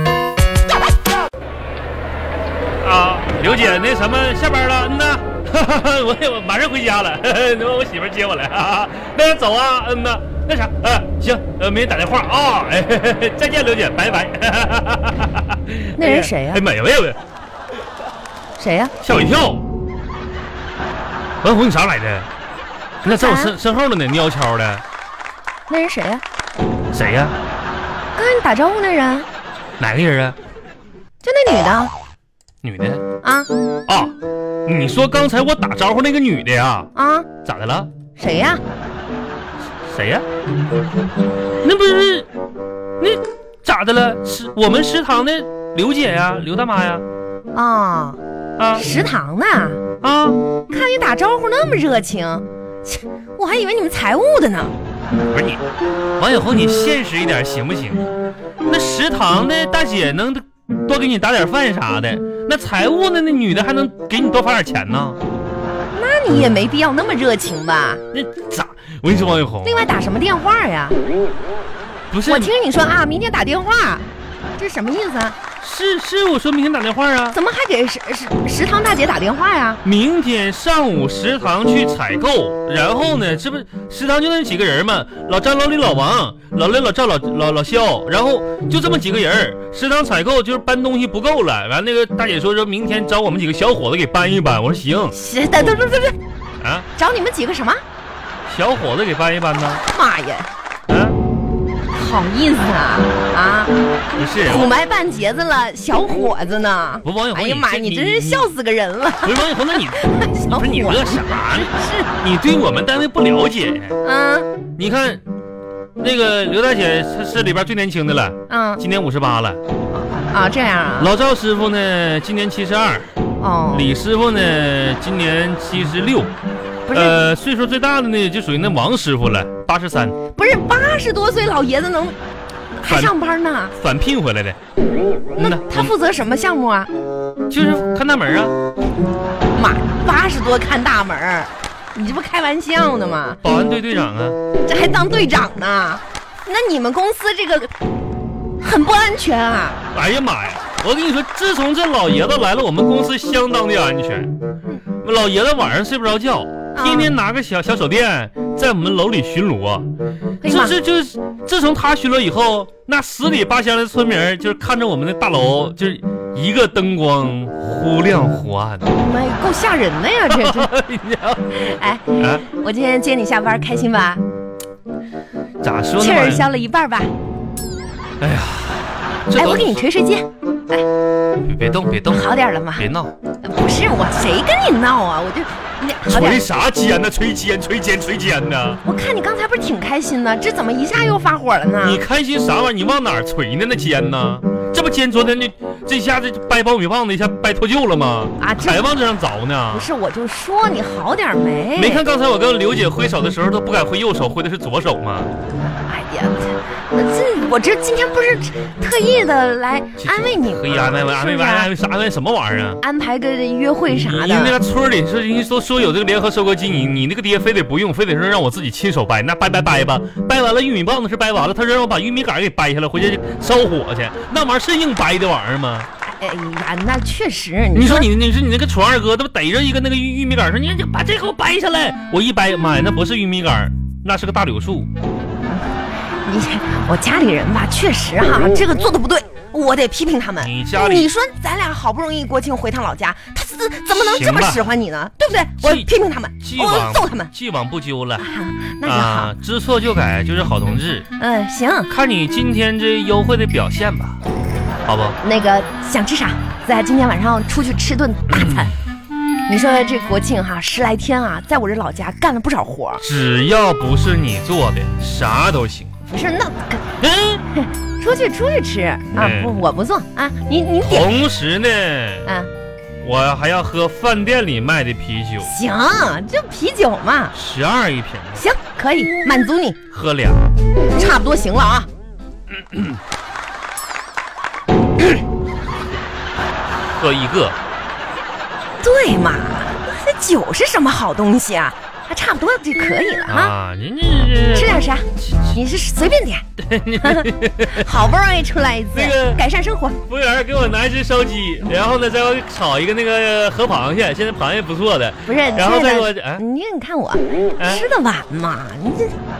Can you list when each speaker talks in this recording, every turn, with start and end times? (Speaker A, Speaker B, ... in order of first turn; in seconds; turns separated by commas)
Speaker A: 2.8-17.2, Speaker B: 16.0-16.6, Speaker B: 18.6-18.9, Speaker A: 19.0-19.6, Speaker A: 21.4-22.3, Speaker A: 23.0-24.8, Speaker B: 23.0-23.5, Speaker B: 25.7-26.2, Speaker A: 26.9-27.4, Speaker B: 28.1-29.3, Speaker A: 29.8-30.4, Speaker B: 31.2-31.9, Speaker A: 32.6-33.0, Speaker B: 33.2-33.5, Speaker A: 33.9-36.9, Speaker B: 36.9-37.3, Speaker A: 37.4-37.9, Speaker B: 38.2-38.6, Speaker A: 39.8-40.2, Speaker A: 41.6-42.3, Speaker A: 43.0-47.0, Speaker B: 47.5-48.2, Speaker A: 48.6-48.9, Speaker B: 48.7-49.8, Speaker A: 50.0-50.4, Speaker B: 50.7-54.7, Speaker A: 55.3-55.6, Speaker A: 56.2-58.0, Speaker A: 58.6-65.2, Speaker B: 65.9-68.0, Speaker A: 68.1-69.8, Speaker B: 69.6-71.0, Speaker A: 72.1-72.5, Speaker B: 72.2-75.4, Speaker A: 75.6-77.4, Speaker B: 77.3-79.8, Speaker A: 79.8-95.2, Speaker B: 95.1-96.2, Speaker A: 96.6-96.9, Speaker B: 97.0-97.8, Speaker A: 98.5-99.8, Speaker B: 99.9-100.5, Speaker A: 100.9-101.2, Speaker B: 101.9-103.7, Speaker A: 104.1-104.7, Speaker B: 104.4-112.1, Speaker A: 107.0-108.5, Speaker A: 109.2-114.0, Speaker B: 114.0-114.5, Speaker A: 114.8-115.2, Speaker A: 116.0-119.6, Speaker B: 118.5-118.8, Speaker B: 120.1-121.1, Speaker A: 121.0-123.1, Speaker B: 123.4-123.9, Speaker A: 123.7-126.3, Speaker B: 126.9-127.2, Speaker A: 126.9-130.2, Speaker B: 130.3-132.2, Speaker B: 132.8-133.7, Speaker A: 132.9-133.2, Speaker A: 133.8-134.6, Speaker A: 135.3-135.9, Speaker B: 135.4-136.9, Speaker A: 137.5-138.5, Speaker B: 139.5-143.4, Speaker A: 143.4-144.4, Speaker B: 144.6-147.7, Speaker B: 148.6-149.8, Speaker A: 149.9-154.3, Speaker A: 155.0-159.9, Speaker B: 156.7-157.1, Speaker B: 160.4-160.8, Speaker A: 160.4-168.8, Speaker B: 168.8-170.7, Speaker A: 170.3-171.6, Speaker B: 171.5-174.2, Speaker A: 172.2-172.4, Speaker A: 175.6-176.4, Speaker B: 176.0-177.1, Speaker A: 178.2-179.8, Speaker B: 179.3-180.8, Speaker A: 181.4-183.1, Speaker B: 182.1-182.9, Speaker B: 183.4-186.4, Speaker A: 186.1-188.8, Speaker B: 188.8-192.0, Speaker A: 191.8-199.9, Speaker B: 198.4-198.9, Speaker B: 199.7-202.0, Speaker A: 201.7-205.3, Speaker B: 205.8-211.7, Speaker A: 210.0-212.8, Speaker B: 212.8-214.6, Speaker A: 213.9-225.9, Speaker B: 226.2-228.1, Speaker A: 227.7-234.9, Speaker B: 236.2-247.3, Speaker A: 240.4-241.1, Speaker A: 243.9-244.7, Speaker A: 245.6-248.2, Speaker B: 248.2-249.3, Speaker A: 248.8-251.1, Speaker B: 251.2-251.9, Speaker A: 251.9-254.2, Speaker A: 254.8-255.2, Speaker B: 255.2-258.7, Speaker B: 259.5-263.0, Speaker A: 263.0-265.9, Speaker B: 266.0-266.9, Speaker A: 267.0-267.4, Speaker B: 267.5-271.1, Speaker A: 269.1-269.6, Speaker A: 270.8-272.3, Speaker A: 273.0-275.5, Speaker B: 275.4-277.3, Speaker A: 277.3-278.4, Speaker B: 278.4-279.8, Speaker A: 279.9-280.4, Speaker B: 280.9-281.9, Speaker A: 282.5-283.0, Speaker A: 286.8-287.6, Speaker B: 288.8-293.5, Speaker A: 293.3-295.6, Speaker B: 294.5-296.4, Speaker A: 296.6-297.9, Speaker B: 297.0-300.0, Speaker A: 298.9-299.4, Speaker A: 300.1-306.4, Speaker B: 305.2-309.1, Speaker A: 307.6-307.8